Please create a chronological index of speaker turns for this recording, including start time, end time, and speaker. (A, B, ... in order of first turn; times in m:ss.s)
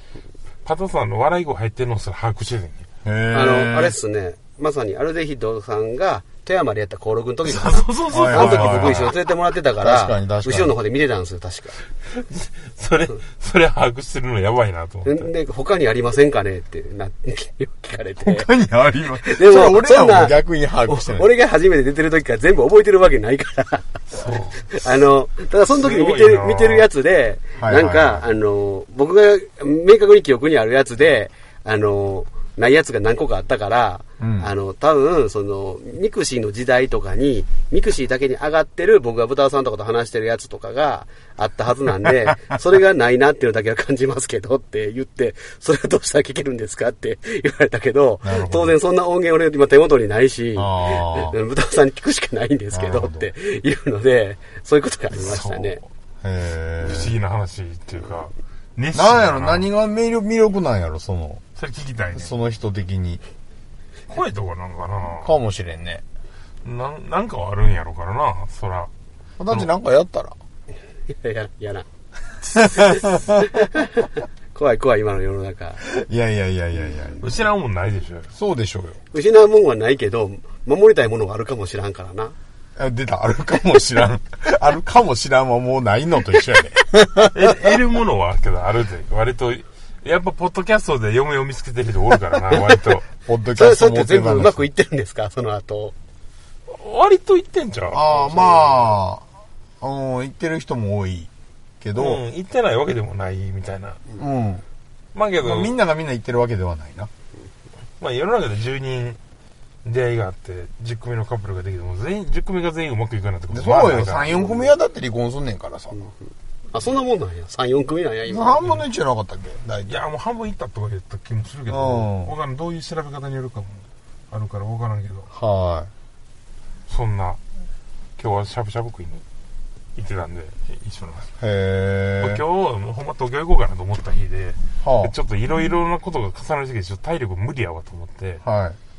0:00.6-0:02.9 A
0:03.0-0:03.9 B
0:03.3-0:11.8 C
0:07.4-0:09.1 A
0:08.1-0:09.1 B
0:09.8-0:10.7 B
0:12.1-0:15.3 A
0:15.0-0:18.5 C
0:18.2-0:21.3 B
0:19.2-0:24.0 C
0:24.1-0:24.8 A
0:24.7-0:55.8 C
0:25.7-0:26.9 A
0:27.6-0:28.2 B
0:34.2-0:34.5 B
0:48.2-0:48.8 B
0:50.6-0:51.3 B
0:52.7-0:53.3 B
0:55.2-0:55.8 A
0:56.2-0:57.2 B
0:56.8-0:59.7 A
0:58.9-1:01.4 B
1:01.6-1:02.3 A
1:02.1-1:03.2 B
1:04.1-1:05.4 A
1:05.2-1:06.0 B
1:06.6-1:08.9 A
1:09.4-1:10.4 B
1:11.1-1:11.8 C
1:12.5-1:13.5 B
1:12.5-1:15.8 C
1:15.8-1:17.2 B
1:17.2-1:18.3 A
1:18.3-1:19.0 B
1:19.1-1:22.3 C
1:22.8-1:27.7 B
1:27.3-1:33.0 A
1:33.2-1:34.6 B
1:33.5-1:35.9 C
1:36.7-1:39.0 A
1:37.9-1:39.2 B
1:39.8-1:41.3 B
1:41.8-1:42.2 B
1:41.9-1:44.0 A
1:44.2-1:44.6 B
1:45.1-1:45.8 A
1:45.4-1:47.1 B
1:48.0-1:49.2 A
1:49.8-1:54.3 A
1:53.5-1:56.0 B
1:54.4-1:54.7 C
1:56.7-1:58.6 C
1:58.3-2:00.0 B
1:59.9-2:05.3 A
2:01.7-2:02.3 B
2:05.3-2:05.9 B
2:06.9-2:07.4 A
2:08.2-2:09.2 A
2:10.0-2:11.3 A
2:11.4-2:12.4 B
2:12.2-2:18.4 A
2:14.8-2:15.1 B
2:18.4-2:18.8 B